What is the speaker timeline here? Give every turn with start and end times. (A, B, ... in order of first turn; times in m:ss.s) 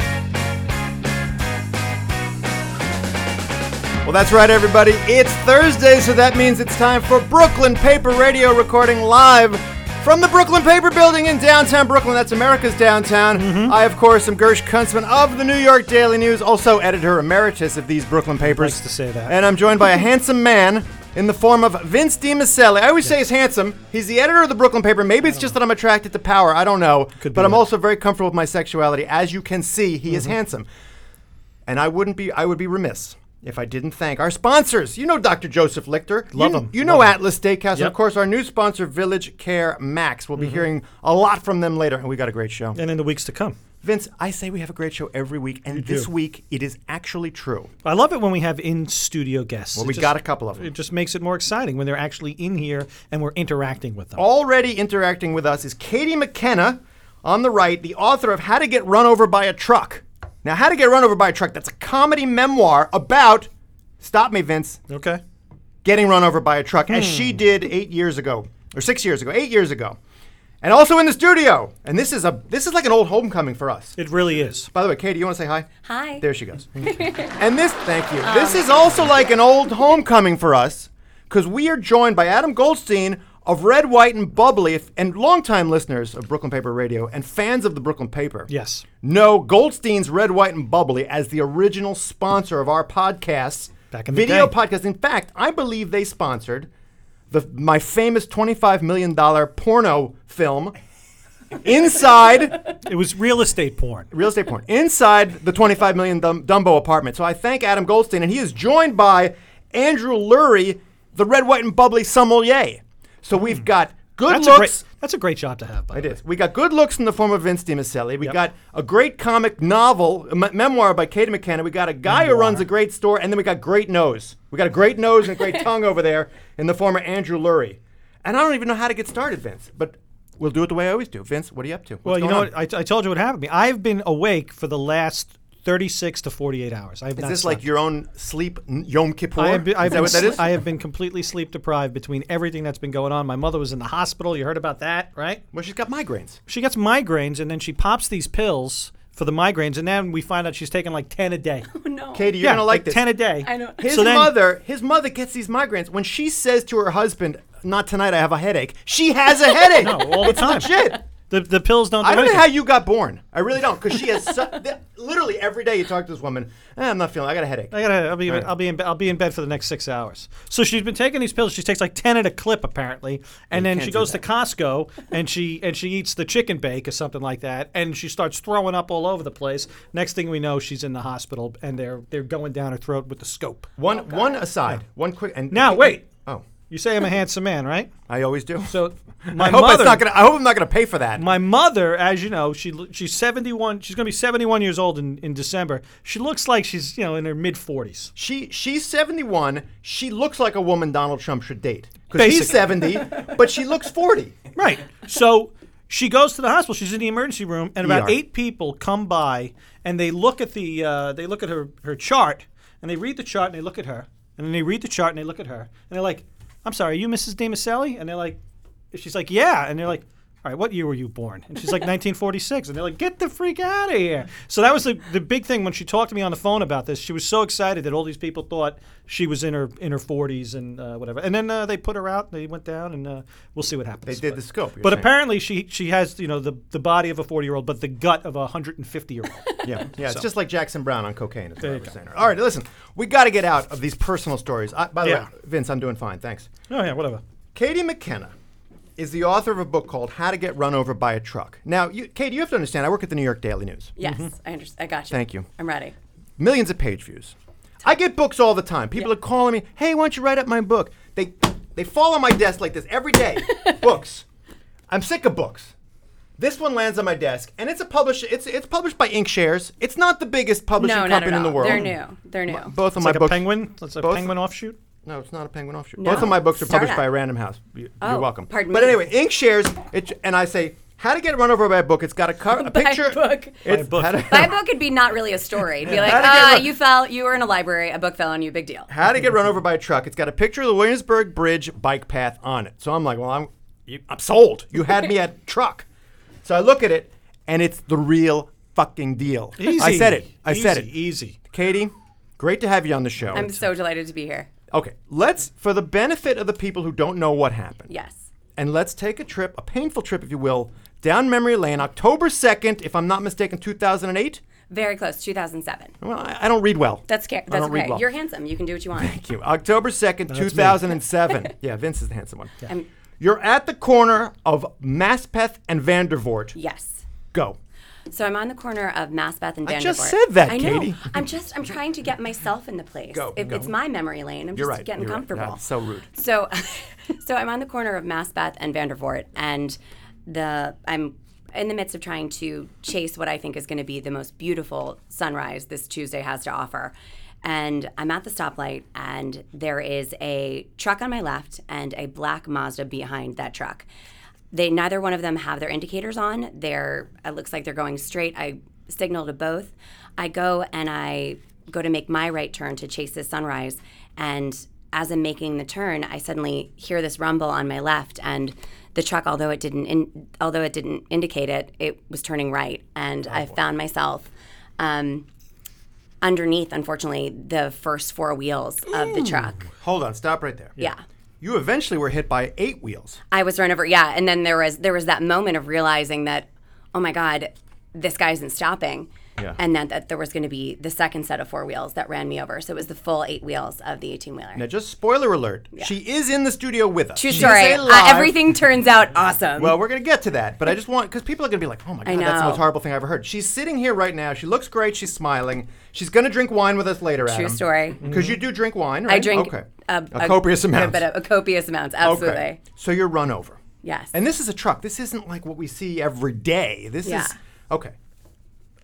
0:04.0-0:30.7 A
0:13.3-0:13.8 B
0:18.4-0:19.4 B
0:27.2-0:27.6 B
0:31.6-0:42.8 A
0:36.3-0:37.1 B
0:42.7-0:43.6 B
0:43.8-0:47.7 A
0:45.7-0:46.1 B
0:47.8-0:54.2 B
0:49.7-0:50.7 A
0:54.2-1:04.8 A
1:04.9-1:05.2 B
1:05.8-1:10.0 A
1:06.9-1:07.4 B
1:10.6-1:14.0 A
1:14.0-1:14.7 B
1:14.7-1:15.7 A
1:15.8-1:16.2 C
1:16.2-1:28.5 A
1:16.8-1:17.4 C
1:18.2-1:19.4 C
1:28.5-1:28.9 B
1:29.0-1:36.7 A
1:33.9-1:34.5 B
1:37.3-1:40.8 A
1:41.6-1:42.7 A
1:42.8-1:44.1 B
1:44.1-1:54.8 A
1:54.3-1:56.2 B
1:55.9-2:12.5 A
2:02.1-2:02.6 B
2:12.0-2:17.6 B
2:17.2-2:20.5 A
2:19.4-2:25.4 B
2:25.5-2:26.4 A
2:26.5-2:31.7 B
2:31.7-2:32.3 C
2:32.1-2:33.0 A
2:32.4-2:34.4 B
2:33.4-2:33.8 C
2:33.8-2:41.0 A
2:39.8-2:42.4 B
2:42.0-2:47.7 A
2:47.7-3:03.7 B
2:53.5-2:54.2 A
3:03.8-3:06.5 A
3:03.9-3:04.4 C
3:05.5-3:06.1 B
3:06.6-3:07.9 B
3:08.1-3:08.7 A
3:08.7-3:10.0 B
3:09.3-3:11.3 A
3:11.2-3:18.1 B
3:18.2-3:24.4 A
3:22.2-3:23.0 B
3:24.6-3:38.4 B
3:27.8-3:28.2 A
3:38.9-4:00.2 B
3:54.0-3:55.1 A
3:59.6-4:06.5 A
4:01.6-4:01.9 B
4:05.0-4:05.3 B
4:06.7-4:07.2 B
4:07.5-4:08.3 A
4:09.0-4:14.0 A
4:14.0-4:15.9 C
4:14.0-4:14.3 B
4:15.1-4:15.5 A
4:16.4-4:24.2 A
4:24.9-4:25.7 A
4:26.4-4:32.0 A
4:30.8-4:32.7 C
4:31.6-4:31.9 B
4:32.5-4:34.3 A
4:33.0-4:34.8 B
4:35.0-4:44.6 A
4:36.0-4:37.1 C
4:38.0-4:39.0 C
4:42.5-4:48.9 C
4:43.6-4:44.5 B
4:45.8-4:46.7 A
4:48.9-4:55.8 A
4:56.4-5:00.9 A
4:59.6-5:01.4 B
5:01.5-5:03.6 A
5:03.3-5:04.5 C
5:04.7-5:07.9 A
5:07.9-5:08.2 C
5:08.6-5:14.4 A
5:14.7-5:16.0 C
5:16.0-5:18.0 A
5:17.1-5:19.2 C
5:19.0-5:22.5 A
5:20.3-5:21.0 B
5:23.2-5:26.6 A
5:26.5-5:27.0 C
5:27.3-5:27.6 A
5:28.1-5:53.9 C
5:29.6-5:31.1 A
5:33.1-5:33.7 A
5:34.6-5:36.1 A
5:54.5-6:15.2 C
6:13.3-6:13.6 A
6:16.2-6:19.7 C
6:18.9-6:20.8 A
6:21.4-6:23.2 A
6:23.3-6:34.6 C
6:34.6-6:38.4 A
6:37.2-6:39.8 C
6:39.6-6:51.0 A
6:42.0-6:42.6 C
6:47.2-6:48.0 C
6:48.1-6:48.4 B
6:49.1-6:52.6 C
6:52.0-6:53.6 A
6:53.8-6:54.1 C
6:54.1-6:57.9 A
6:57.0-6:57.3 C